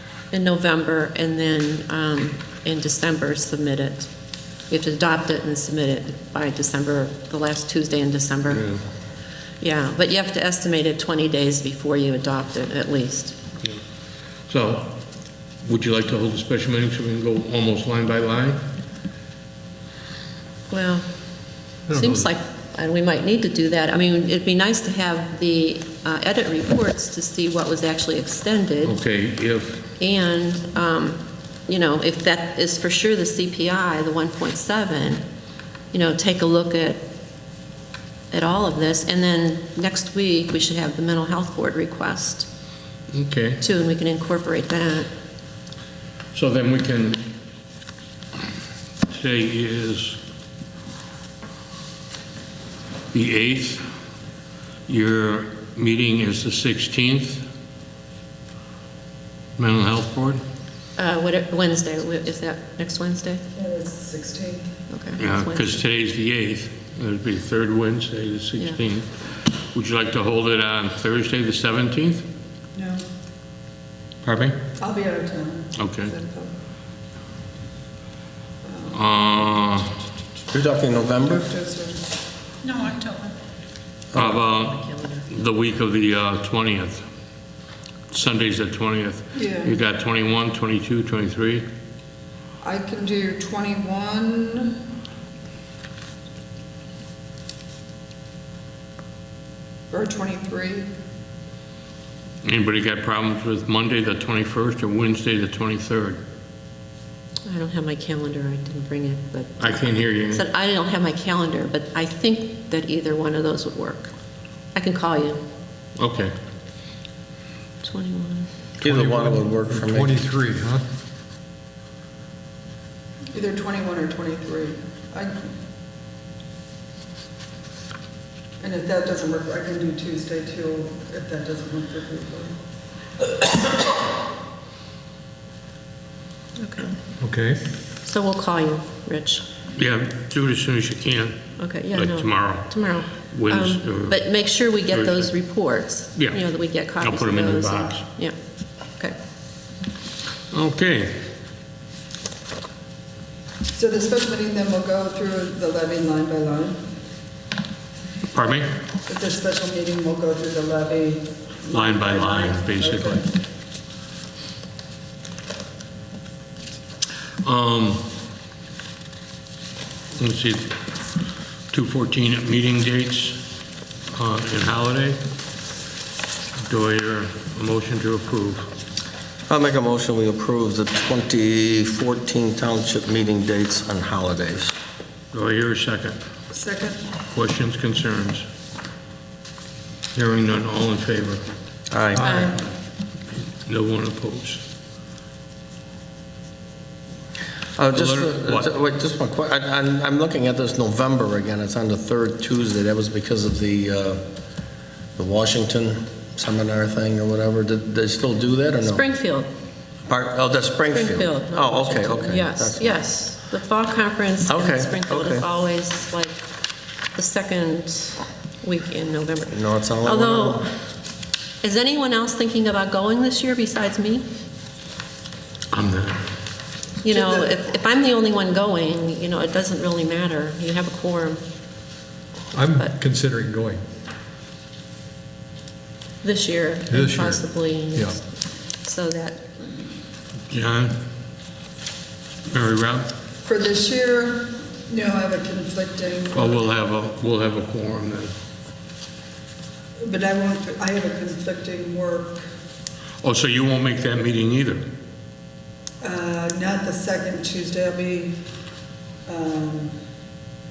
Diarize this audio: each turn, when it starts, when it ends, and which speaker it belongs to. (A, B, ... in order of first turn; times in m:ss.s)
0:00.3-0:04.1 A
0:04.7-0:08.7 A
0:08.5-0:08.8 B
0:09.6-0:13.4 A
0:14.5-0:15.0 B
0:15.6-0:18.6 B
0:20.7-0:21.1 A
0:21.9-0:22.3 C
0:21.9-0:29.0 A
0:28.8-0:29.9 B
0:30.0-0:35.2 A
0:35.9-0:37.0 A
0:38.3-0:42.5 A
0:43.1-0:43.6 B
0:43.6-0:45.1 A
0:46.3-0:47.2 B
0:49.1-0:50.2 B
0:53.1-0:53.8 B
0:54.9-0:57.4 B
0:59.6-1:00.4 B
1:01.0-1:03.4 A
1:03.5-1:04.8 D
1:04.9-1:05.8 A
1:05.2-1:12.3 B
1:12.7-1:13.0 D
1:14.2-1:14.6 B
1:14.8-1:16.5 D
1:15.8-1:16.1 B
1:18.6-1:19.1 D
1:18.9-1:19.9 B
1:20.5-1:21.5 E
1:20.9-1:22.0 D
1:24.1-1:24.4 E
1:24.1-1:27.0 B
1:24.8-1:25.3 A
1:28.1-1:31.7 B
1:29.3-1:29.8 D
1:32.6-1:34.8 D
1:39.9-1:40.9 D
1:42.4-1:46.2 B
1:47.5-1:54.1 A
1:49.6-1:50.4 B
1:54.7-1:55.4 A
1:56.0-1:56.3 B
1:57.8-1:58.5 A
1:58.8-2:00.2 E
1:58.8-2:00.8 C
2:03.3-2:05.5 D
2:08.6-2:12.6 D
2:16.6-2:16.9 A
2:17.2-2:17.6 C
2:18.0-2:19.4 A
2:19.8-2:21.4 B
2:21.6-2:28.4 A
2:21.9-2:22.7 B
2:23.2-2:24.3 B
2:24.9-2:25.3 B
2:26.2-2:26.4 B
2:27.0-2:28.0 B
2:30.5-2:31.2 B
2:33.7-2:36.8 D
2:38.3-2:38.8 B
2:39.1-2:43.2 D
2:41.7-2:43.2 B
2:47.4-2:48.0 B
2:50.2-2:50.8 B
2:51.7-2:53.4 B
2:54.1-2:55.2 B
2:56.7-2:58.7 B
2:59.5-3:04.7 E
3:05.3-3:06.2 B
3:06.5-3:07.1 D
3:07.3-3:08.5 B
3:10.1-3:11.4 B
3:11.9-3:12.4 E
3:12.2-3:12.6 A
3:13.4-3:14.6 B
3:17.8-3:24.2 E
3:17.9-3:18.7 B
3:25.2-3:29.0 E
3:28.8-3:29.5 A
3:30.1-3:33.0 E
3:30.9-3:36.4 A
3:34.5-3:35.4 E
3:37.1-3:40.7 A
3:39.5-3:40.6 E
3:41.6-3:44.3 A
3:45.7-3:46.2 B
3:47.0-3:47.5 D
3:47.0-3:51.4 A
3:52.5-3:53.8 C
3:56.2-3:58.3 A
3:56.9-3:57.4 C
3:58.8-3:59.6 A
4:00.5-4:01.0 B
4:02.5-4:03.1 B
4:03.4-4:06.7 D
4:06.3-4:08.3 B
4:10.0-4:12.4 D
4:13.2-4:14.8 B
4:16.0-4:18.4 D
4:19.3-4:20.0 D